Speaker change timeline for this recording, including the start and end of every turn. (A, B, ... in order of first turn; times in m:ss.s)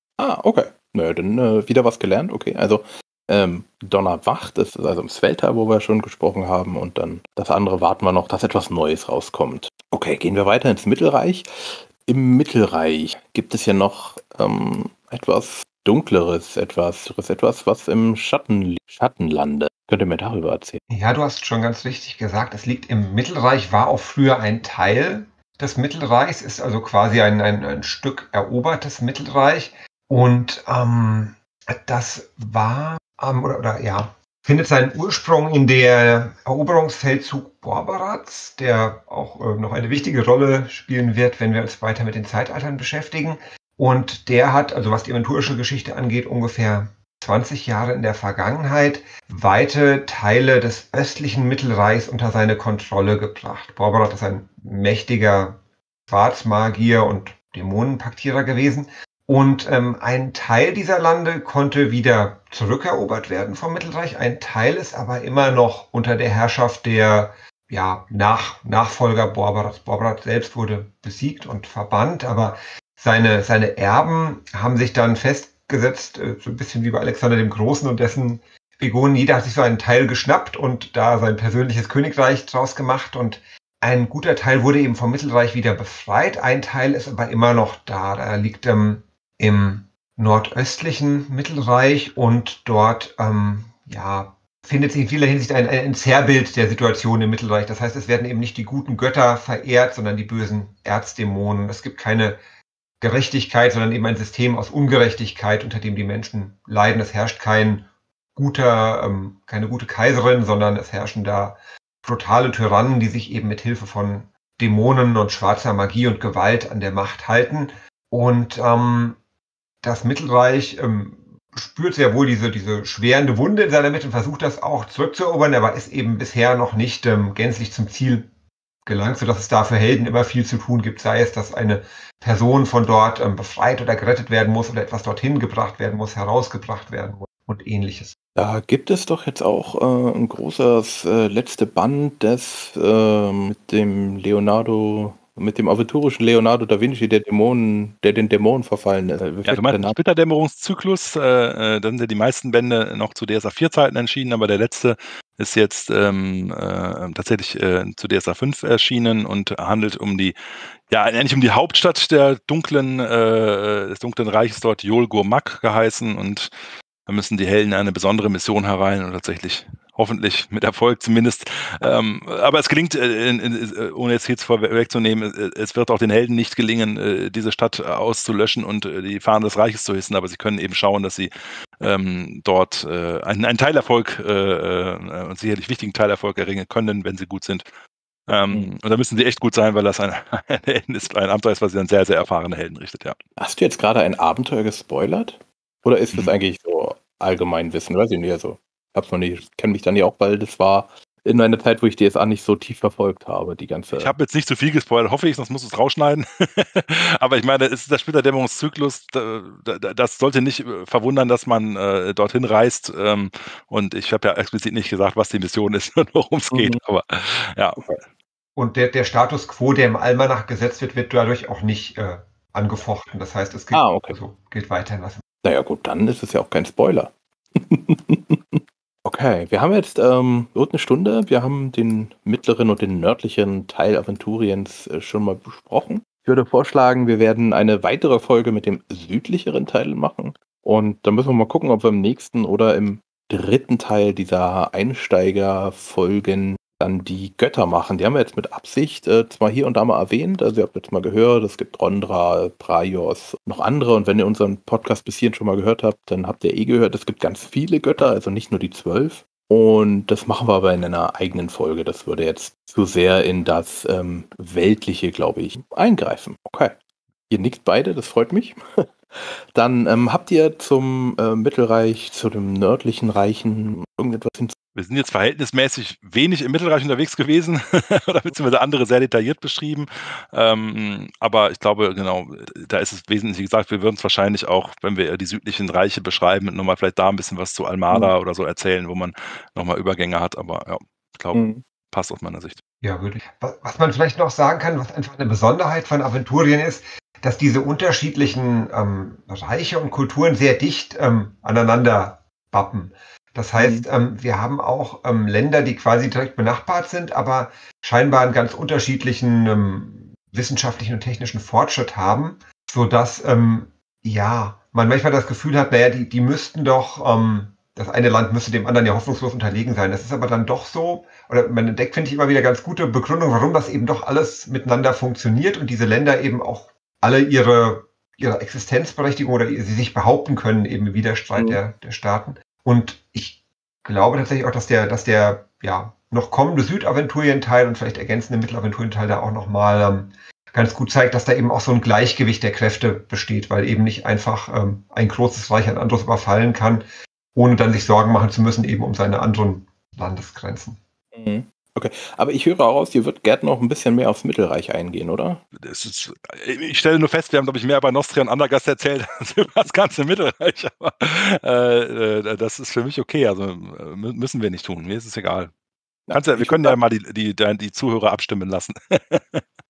0:00.2-0:20.8 A
0:20.9-1:42.4 B
1:43.0-1:59.2 B
1:59.8-2:08.3 B
2:08.9-2:18.2 B
2:18.4-2:30.0 A
2:29.4-2:40.4 C
2:40.9-2:46.5 C
2:47.1-3:07.7 C
3:08.3-3:13.2 C
3:13.4-3:24.1 A
3:24.0-3:38.0 C
3:36.5-3:36.8 A
3:38.6-3:45.2 B
3:43.7-3:44.1 A
3:45.4-4:26.8 A
4:27.3-4:34.6 A
4:34.8-4:52.6 C
4:51.3-4:51.6 A
4:52.8-5:46.8 B
5:03.6-5:03.9 A
5:47.4-5:50.8 B
5:51.1-5:55.4 A
5:55.6-6:05.5 C
6:06.1-6:06.8 A
6:06.1-6:09.4 C